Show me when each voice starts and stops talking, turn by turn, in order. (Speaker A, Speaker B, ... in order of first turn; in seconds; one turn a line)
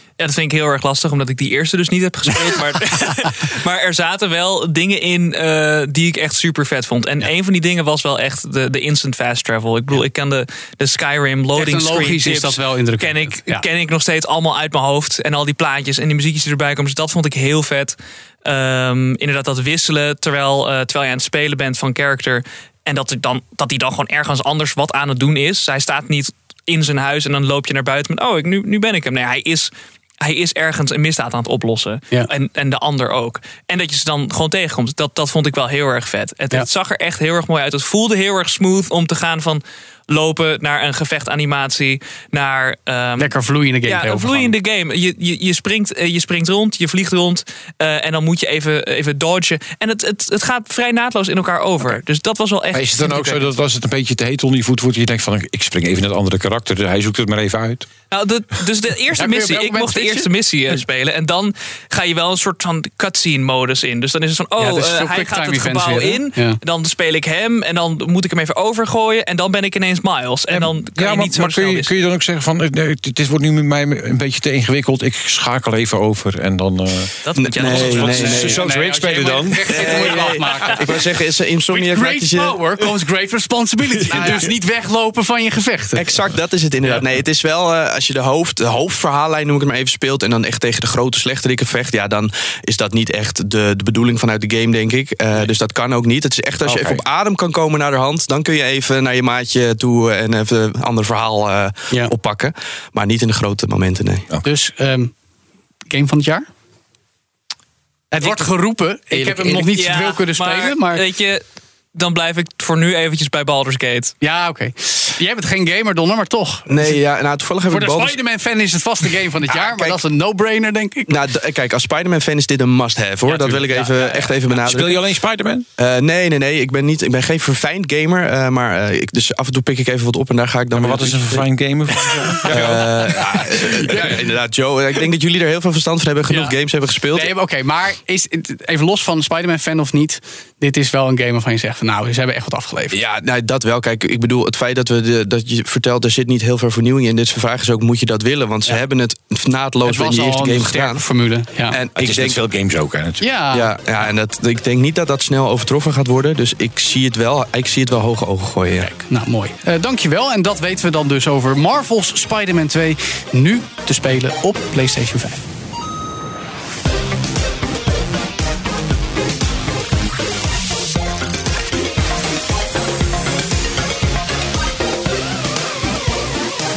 Speaker A: 0.2-29.7
Speaker B: 11.6-13.7
Speaker A: 30.2-43.3
Speaker B: 43.2-44.5
Speaker A: 43.9-53.2
Speaker C: 52.7-57.9
Speaker B: 53.0-53.5
Speaker A: 58.1-72.0
Speaker B: 59.1-60.3
Speaker B: 64.6-66.6
Speaker C: 70.5-77.1
Speaker A: 77.2-78.4
Speaker D: 77.4-78.6
Speaker C: 77.6-79.9
Speaker B: 78.3-81.0
Speaker D: 79.7-82.6
Speaker B: 81.7-86.1
Speaker D: 84.1-84.5
Speaker D: 85.9-104.2
Speaker C: 96.7-97.0
Speaker B: 104.4-105.1
Speaker B: 105.9-106.5
Speaker B: 108.1-111.0
Speaker D: 109.1-109.7
Speaker A: 109.8-111.4
Speaker A: 111.9-114.1
Speaker B: 114.2-117.0
Speaker D: 116.7-118.2
Speaker B: 117.6-121.2
Speaker D: 119.5-120.0
Speaker D: 121.1-125.0
Speaker B: 123.6-124.3
Speaker C: 124.5-125.6
Speaker D: 125.8-131.4
Speaker C: 130.7-133.2
Speaker D: 132.4-137.3
Speaker B: 136.3-136.6
Speaker B: 137.1-143.0
Speaker D: 142.9-151.1
Speaker B: 149.8-151.8
Speaker D: 151.7-152.4
Speaker C: 152.0-153.3
Speaker B: 153.2-153.8
Speaker D: 153.5-158.9
Speaker B: 159.1-165.4